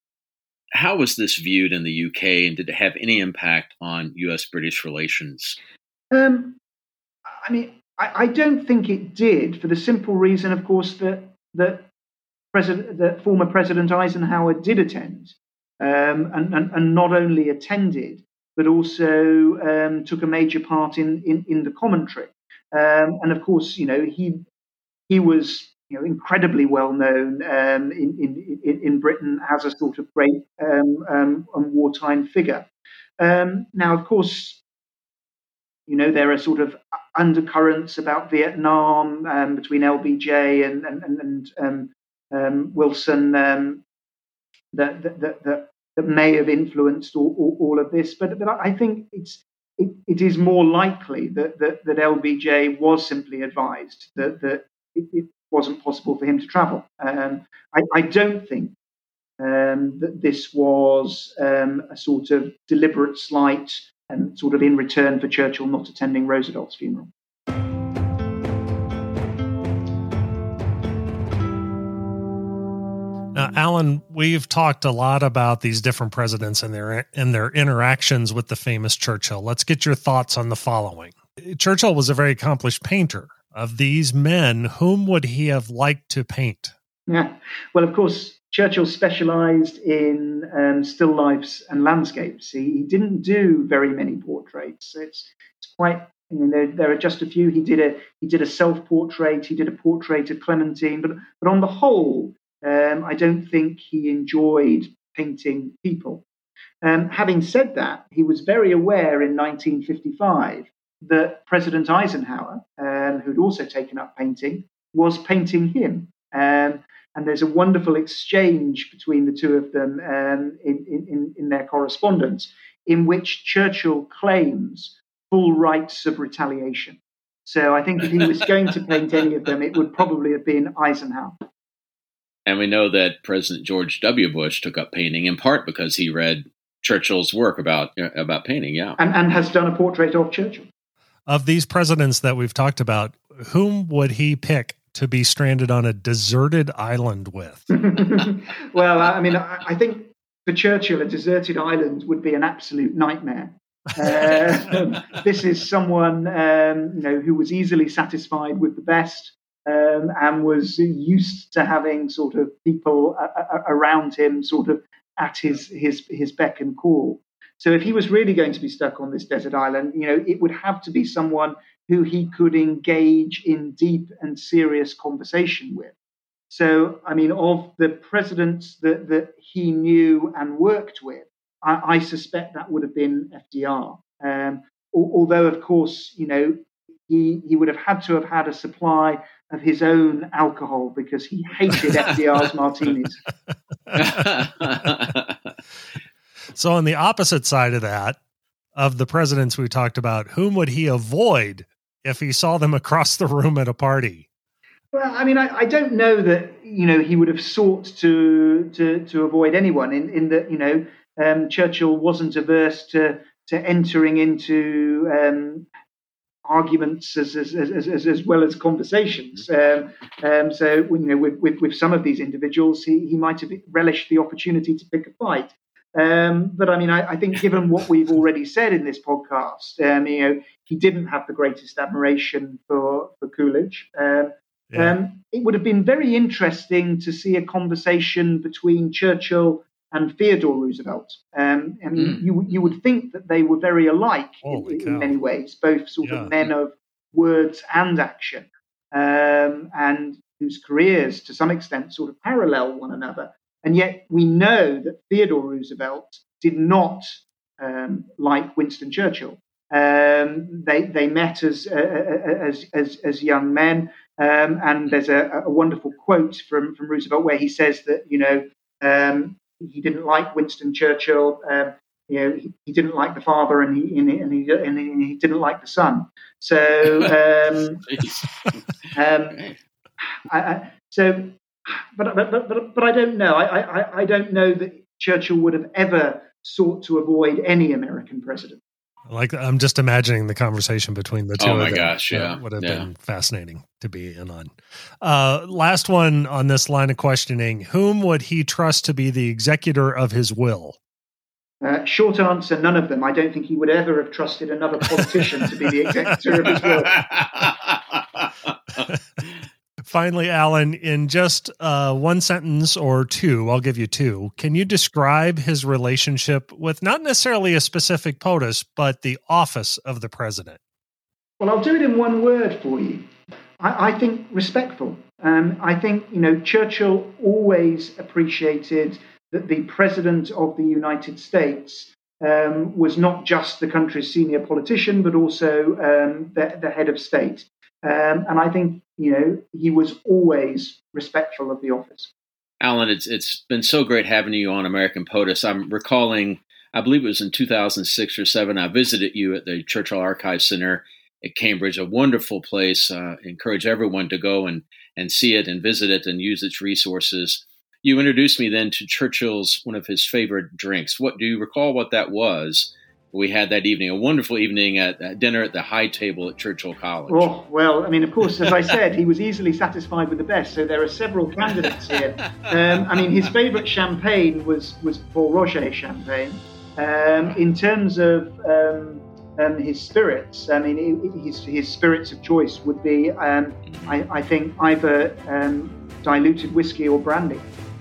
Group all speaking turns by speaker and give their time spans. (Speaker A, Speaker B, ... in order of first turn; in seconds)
Speaker A: 0.7-5.6, 132.5-139.0, 194.0-195.3, 277.9-278.6, 291.4-292.9, 306.7-308.3, 342.6-367.3
Speaker B: 6.1-6.6, 7.3-11.9, 12.5-24.4, 25.1-32.7, 33.2-34.6, 35.9-43.8, 44.7-58.8, 59.4-67.1, 87.1-106.2, 106.8-131.4, 139.0-140.7, 147.7-175.9, 176.5-193.2, 204.9-215.7, 216.4-278.1, 278.9-279.5, 280.0-288.6, 301.6-307.1, 321.4-323.1, 323.6-342.1, 367.1-387.5
Speaker C: 73.3-86.7, 141.3-147.7, 193.9-194.9, 196.6-198.2, 198.8-204.3, 234.7-235.0, 244.4-245.1, 246.0-246.3, 289.1-300.8, 309.8-320.6